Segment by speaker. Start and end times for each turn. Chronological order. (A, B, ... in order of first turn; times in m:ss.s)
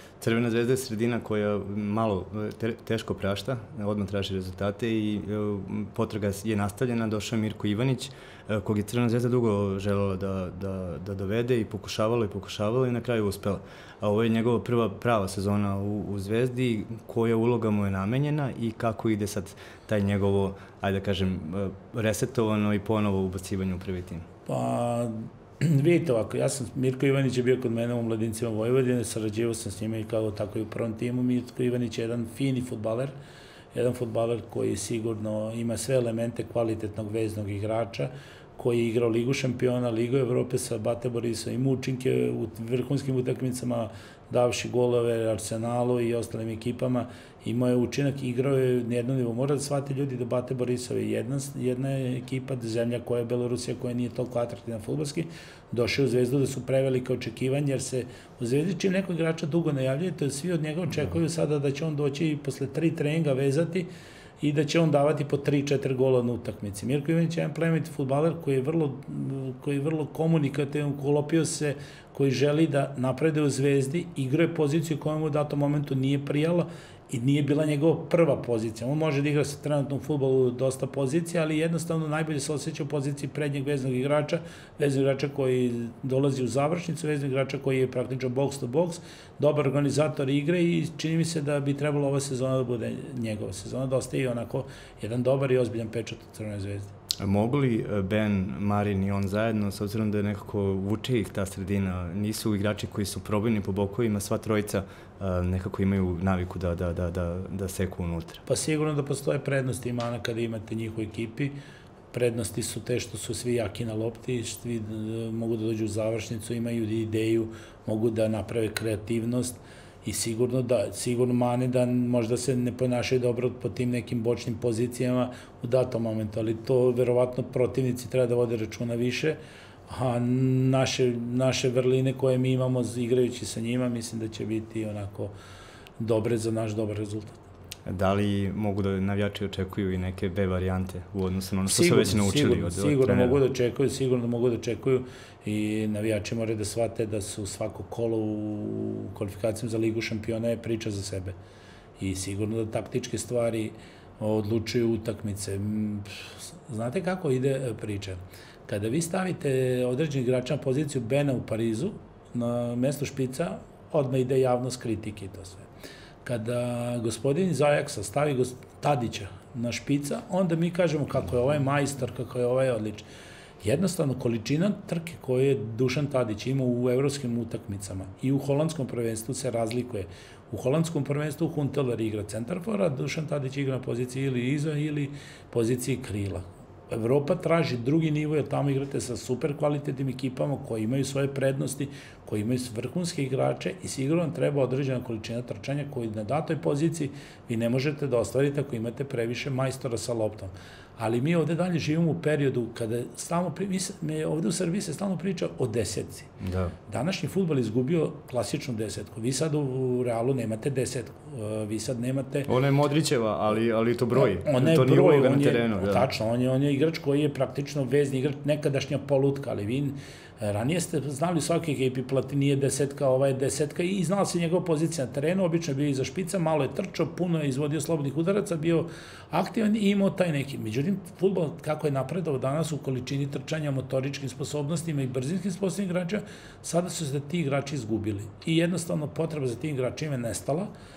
0:00.2-0:24.3 A
0:24.5-0:33.2 B
0:33.7-1:03.9 B
1:04.4-1:36.9 B
1:37.2-1:48.4 A
1:48.5-1:51.6 B
1:52.1-2:15.3 B
2:16.0-2:17.4 B
2:17.9-2:23.4 A
2:21.7-2:31.4 B
2:32.0-2:45.7 B
2:46.2-2:53.0 B
2:53.6-3:26.3 B
3:26.4-3:26.8 A
3:26.9-3:32.5 B
3:32.5-3:36.1 A
3:34.1-4:00.7 B